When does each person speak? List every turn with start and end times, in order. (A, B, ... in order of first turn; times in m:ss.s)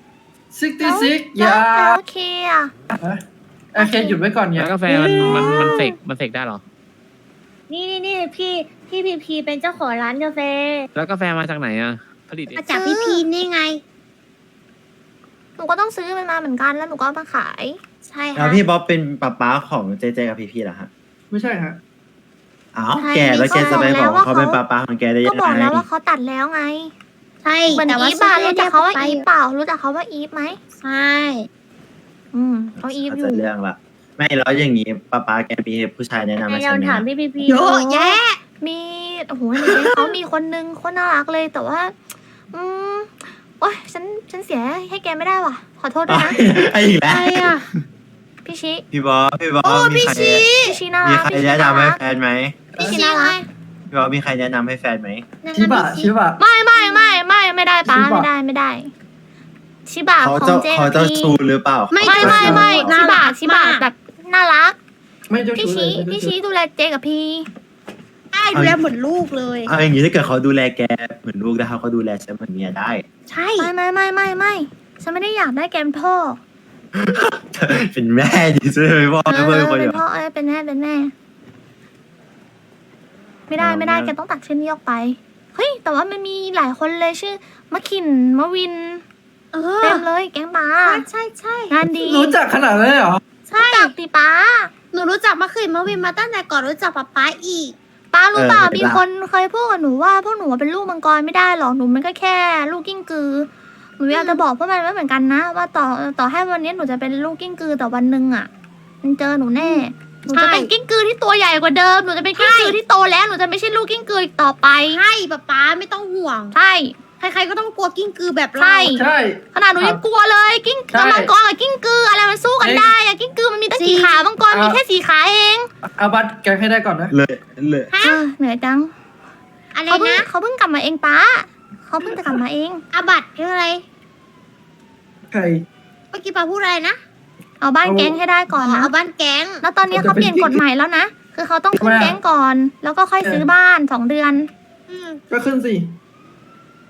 0:00.5-0:02.0 A
0:00.8-0:02.7 B
0:03.0-0:03.2 A
0:03.8-0:04.2 B
0:03.8-0:05.2 A
0:04.6-0:06.6 C
0:05.2-0:06.0 D
0:05.3-0:05.6 B
0:07.7-0:10.9 E
0:11.0-0:13.0 C
0:12.5-0:13.8 D
0:15.6-0:17.8 B
0:18.1-0:18.6 D
0:18.4-0:20.9 F
0:21.3-0:21.8 A
0:22.7-0:25.8 F
0:23.0-0:24.0 D
0:23.0-0:24.6 B
0:25.2-0:26.9 B
0:27.4-0:29.3 D
0:27.7-0:30.6 B
0:30.8-0:31.5 D
0:32.3-0:33.5 B
0:32.8-0:37.0 F
0:36.4-0:37.8 E
0:37.4-0:38.4 D
0:37.7-0:41.9 B
0:39.6-0:40.2 D
0:42.5-0:46.4 B
0:46.1-0:47.6 F
0:47.1-0:47.7 D
0:48.4-0:48.8 B
0:48.9-0:50.5 F
0:49.6-0:50.8 D
0:50.6-0:52.0 B
0:51.0-0:52.7 F
0:52.8-0:53.0 A
0:52.8-0:53.4 B
0:52.8-0:53.5 D
0:53.9-0:55.2 F
0:55.4-0:56.1 D
0:55.5-0:56.4 A
0:56.4-0:58.9 B
0:57.8-0:58.3 A
0:59.9-1:01.4 B
1:00.2-1:02.9 F
1:01.9-1:03.8 D
1:02.0-1:04.8 B
1:02.2-1:02.8 A
1:05.3-1:06.3 A
1:05.6-1:07.5 B
1:08.3-1:09.7 D
1:08.5-1:08.8 F
1:09.7-1:13.0 F
1:13.3-1:13.7 D
1:13.6-1:16.4 B
1:16.9-1:20.0 F
1:19.3-1:21.1 B
1:23.5-1:29.0 B
1:23.6-1:24.1 F
1:29.5-1:30.0 D
1:29.8-1:31.0 B
1:30.8-1:31.8 D
1:31.7-1:32.4 B
1:31.9-1:33.2 A
1:33.5-1:33.9 D
1:33.6-1:34.7 B
1:34.9-1:37.8 D
1:38.1-1:48.5 B
1:38.3-1:39.0 F
1:44.1-1:44.4 D
1:49.0-1:55.0 B
1:49.6-1:50.7 D
1:52.4-1:52.8 D
1:54.9-1:56.6 D
1:56.5-1:57.0 B
1:57.2-1:59.0 D
1:58.6-2:05.7 B
1:58.9-2:00.0 A
2:00.9-2:01.3 A
2:02.6-2:02.9 A
2:03.7-2:04.2 D
2:04.5-2:04.8 A
2:06.0-2:07.1 A
2:07.1-2:07.9 F
2:07.9-2:08.2 D
2:08.0-2:08.9 B
2:09.8-2:10.3 D
2:09.9-2:12.8 B
2:12.9-2:13.8 D
2:15.3-2:15.6 A
2:16.1-2:17.0 D
2:17.6-2:18.9 B
2:17.8-2:18.2 A
2:18.6-2:19.6 D
2:19.6-2:24.5 B
2:19.9-2:20.6 A
2:21.8-2:22.2 A
2:23.2-2:23.5 A
2:24.9-2:25.2 D
2:25.3-2:25.9 A